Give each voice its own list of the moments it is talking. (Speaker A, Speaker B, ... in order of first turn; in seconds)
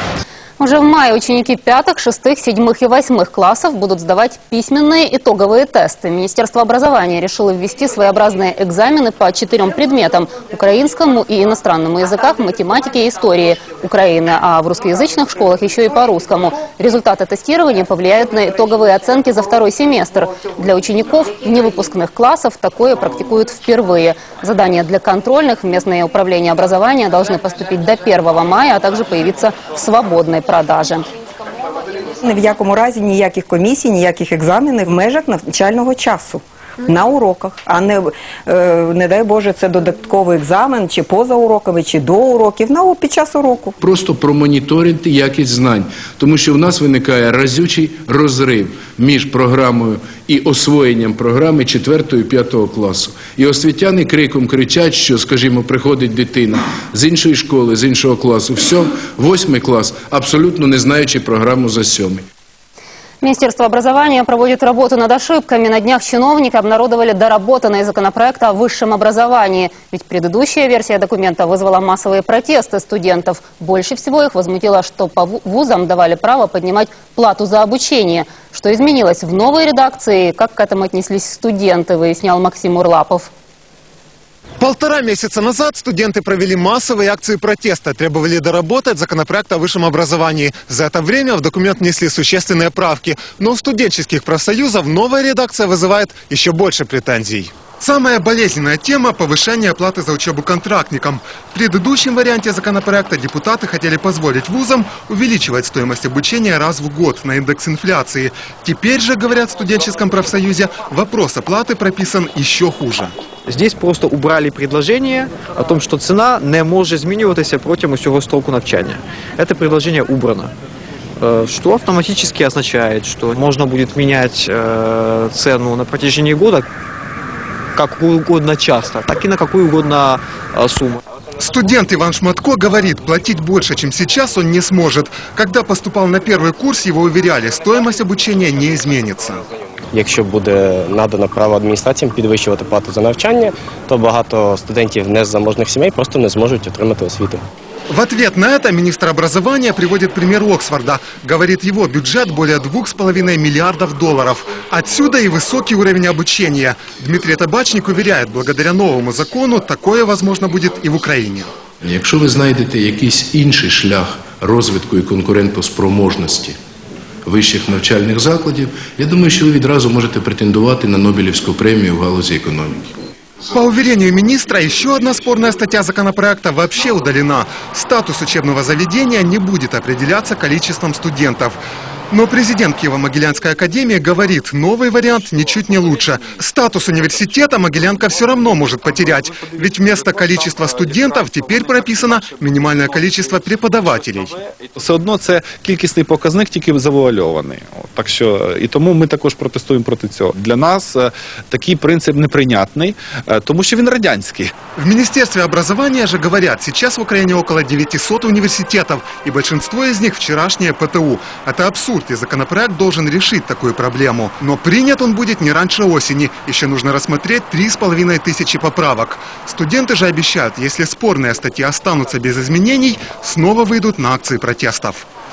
Speaker A: 0.6-31.0, 63.2-83.3
Speaker B: 32.2-43.8
Speaker C: 43.8-62.2, 161.8-166.6, 167.2-172.9
Speaker D: 84.6-113.1, 131.4-139.4, 147.9-161.5, 173.5-194.4, 204.8-225.1
Speaker E: 113.5-120.5, 121.2-126.7, 127.8-131.0
Speaker F: 139.9-147.4
Speaker G: 194.8-204.5